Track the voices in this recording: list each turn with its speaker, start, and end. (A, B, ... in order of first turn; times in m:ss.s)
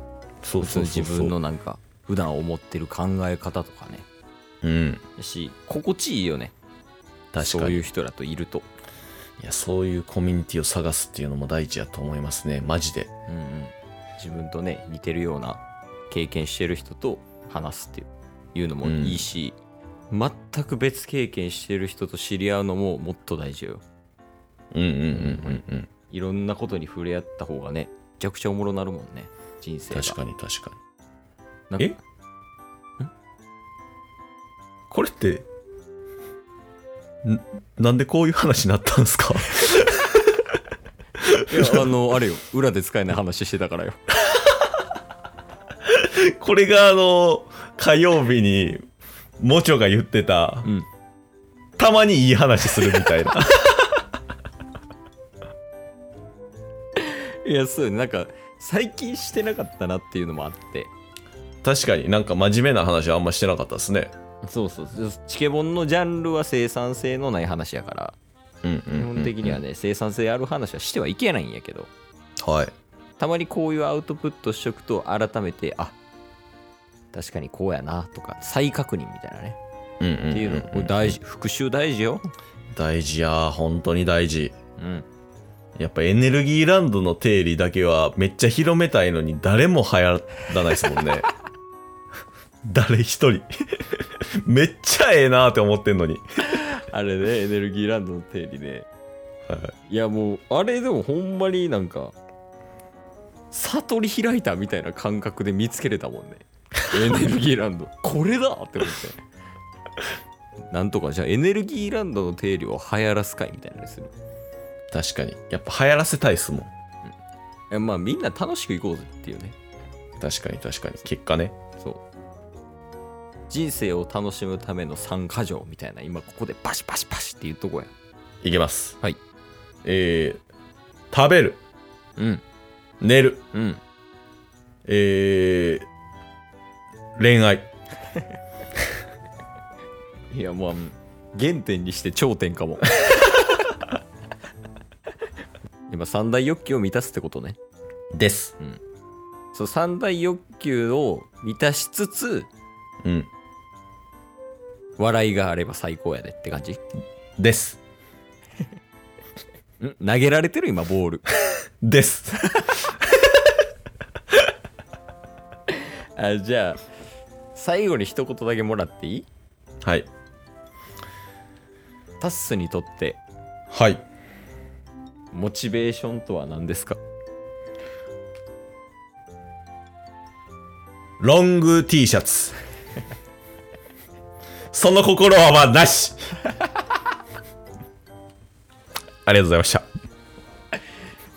0:00.4-0:01.4 A
0:00.6-0:04.1 B
0:04.6-0:05.0 A
0:05.2-0:06.5 B
0:07.3-0:07.9 A
0:07.4-0:08.7 B
0:09.4-0:13.1 A
0:13.3-0:19.6 B
0:18.8-0:19.3 A
0:20.1-0:23.8 B
0:24.7-0:25.9 A
0:25.1-0:30.2 B
0:29.9-0:30.8 A
0:31.7-0:32.0 B
0:34.9-0:35.5 A
0:37.2-0:40.4 A
0:41.2-0:41.8 A
0:41.5-0:44.0 B
0:45.9-0:48.8 A
0:49.4-0:50.7 A
0:51.8-0:54.0 A
0:57.0-1:00.9 B
1:01.6-1:04.1 A
1:04.4-1:08.2 B
1:08.6-1:09.6 A
1:09.0-1:11.9 B
1:12.4-1:12.7 A
1:13.2-1:16.0 B
1:17.1-1:19.6 B
1:20.0-1:21.2 A
1:20.3-1:22.3 B
1:22.7-1:24.6 A
1:24.8-1:25.1 B
1:25.8-1:31.3 A
1:32.6-1:36.2 A
1:36.5-1:38.9 B
1:39.5-1:39.7 A
1:39.9-1:42.2 B
1:43.5-1:49.2 B
1:50.7-1:54.1 B
1:54.9-1:56.7 A
1:57.7-1:59.6 B
2:00.2-2:01.6 A
2:03.5-2:07.9 B
2:08.4-2:09.0 A
2:09.8-2:10.4 A
2:11.1-2:11.6 A
2:12.2-2:12.4 B
2:13.0-2:13.4 A
2:13.5-2:13.8 B
2:14.9-2:15.9 A
2:17.2-2:17.7 A
2:20.3-2:23.6 B
2:25.9-2:27.6 B
2:28.1-2:28.5 A
2:29.5-2:32.5 B
2:33.0-2:33.3 A
2:35.0-2:36.8 B
2:37.4-2:37.8 A
2:39.8-2:41.2 B
2:41.8-2:42.9 A
2:42.4-2:42.7 B
2:45.7-2:46.8 B
2:47.5-2:49.3 B
2:52.2-2:53.2 B
2:53.7-2:54.0 A
2:55.3-2:57.0 B
3:01.2-3:02.6 A
3:04.7-3:06.3 A
3:09.2-3:09.9 A